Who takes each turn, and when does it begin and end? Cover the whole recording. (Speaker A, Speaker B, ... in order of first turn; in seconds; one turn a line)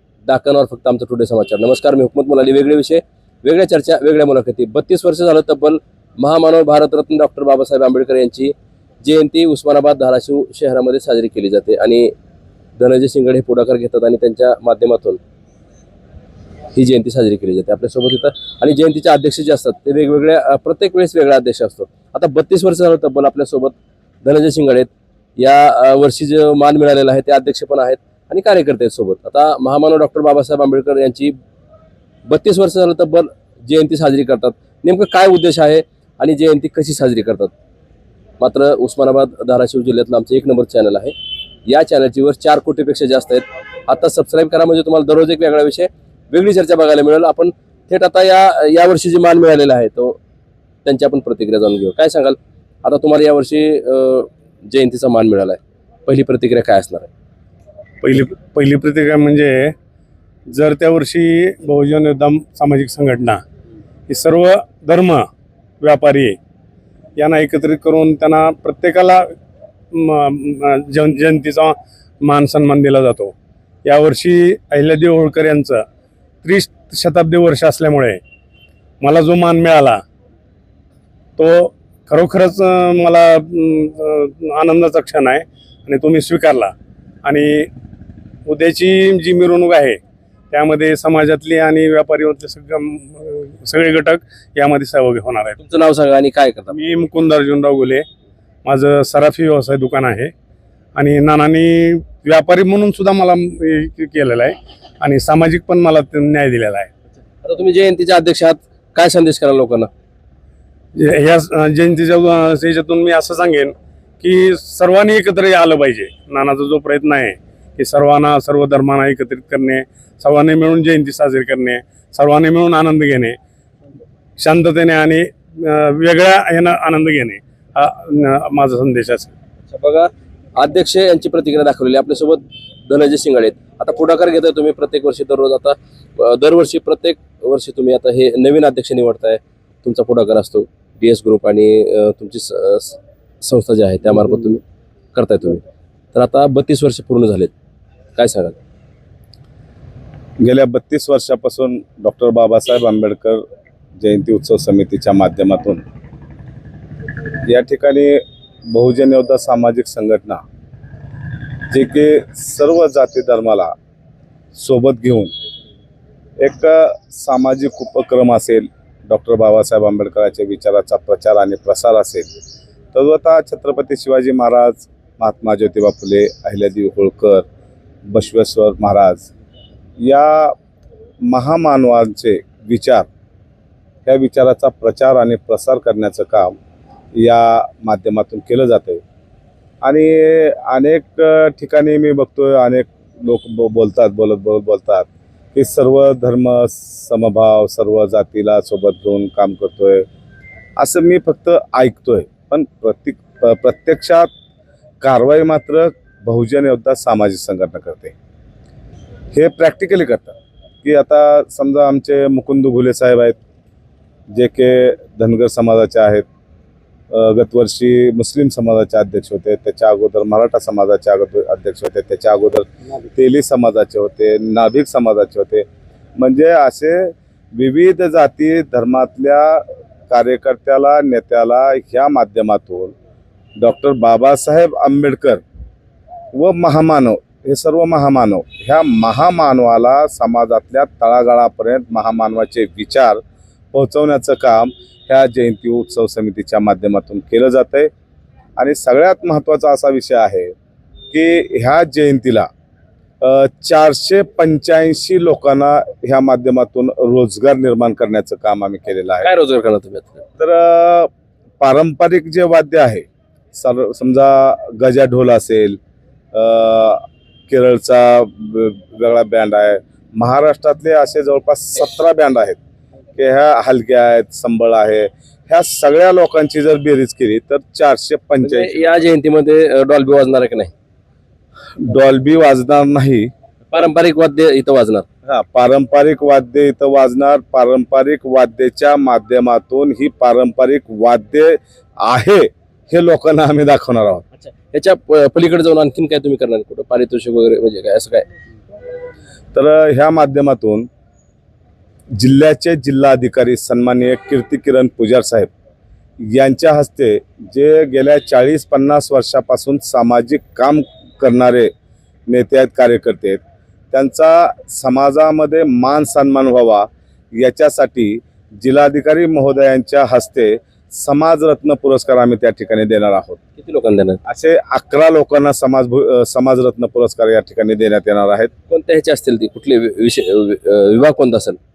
Speaker A: 0.3-12.1
Speaker A: 12.8-15.2
Speaker A: 16.7-31.4
Speaker A: 32.3-37.5
Speaker A: 38.4-41.1
Speaker A: 41.7-50.2
Speaker A: 50.8-57.1
Speaker B: 58.0-59.7
Speaker B: 60.5-63.4
Speaker B: 64.1-65.2
Speaker B: 65.8-66.4
Speaker B: 67.2-69.2
Speaker B: 69.9-73.3
Speaker B: 73.8-75.8
Speaker B: 76.4-78.2
Speaker B: 79.0-80.0
Speaker B: 81.4-86.7
Speaker B: 87.2-87.7
Speaker B: 88.5-90.0
Speaker B: 90.5-95.6
Speaker A: 95.6-96.8
Speaker B: 96.7-98.0
Speaker B: 98.6-100.3
Speaker B: 100.9-106.9
Speaker A: 107.4-109.9
Speaker B: 110.9-123.4
Speaker B: 124.4-129.3
Speaker A: 129.7-144.6
Speaker A: 145.1-145.6
Speaker A: 146.1-147.5
Speaker A: 148.2-148.6
Speaker C: 150.4-153.4
Speaker C: 154.0-155.8
Speaker C: 157.4-160.4
Speaker C: 161.7-163.7
Speaker C: 164.5-165.3
Speaker C: 166.4-172.3
Speaker C: 172.9-177.4
Speaker C: 178.1-179.3
Speaker C: 180.0-180.5
Speaker C: 181.2-183.1
Speaker C: 184.1-186.6
Speaker C: 187.1-189.0
Speaker C: 189.8-200.1
Speaker C: 200.8-204.3
Speaker C: 205.0-208.1
Speaker C: 209.3-213.4
Speaker C: 214.3-216.2
Speaker C: 217.1-225.7
Speaker C: 226.2-232.9
Speaker C: 233.6-235.4
Speaker C: 236.3-243.2
Speaker C: 243.7-247.9
Speaker C: 248.6-250.5
Speaker C: 251.1-252.5
Speaker C: 253.2-259.3
Speaker A: 259.2-260.2
Speaker C: 260.4-265.8
Speaker C: 266.3-272.6
Speaker C: 273.2-278.8
Speaker A: 278.4-280.7
Speaker C: 281.8-283.3
Speaker A: 283.7-285.0
Speaker C: 285.2-294.2
Speaker A: 294.4-298.3
Speaker C: 299.5-300.9
Speaker C: 302.1-305.5
Speaker C: 306.2-311.7
Speaker C: 312.3-313.4
Speaker C: 313.9-323.4
Speaker A: 323.6-324.2
Speaker C: 324.2-328.5
Speaker A: 328.7-331.6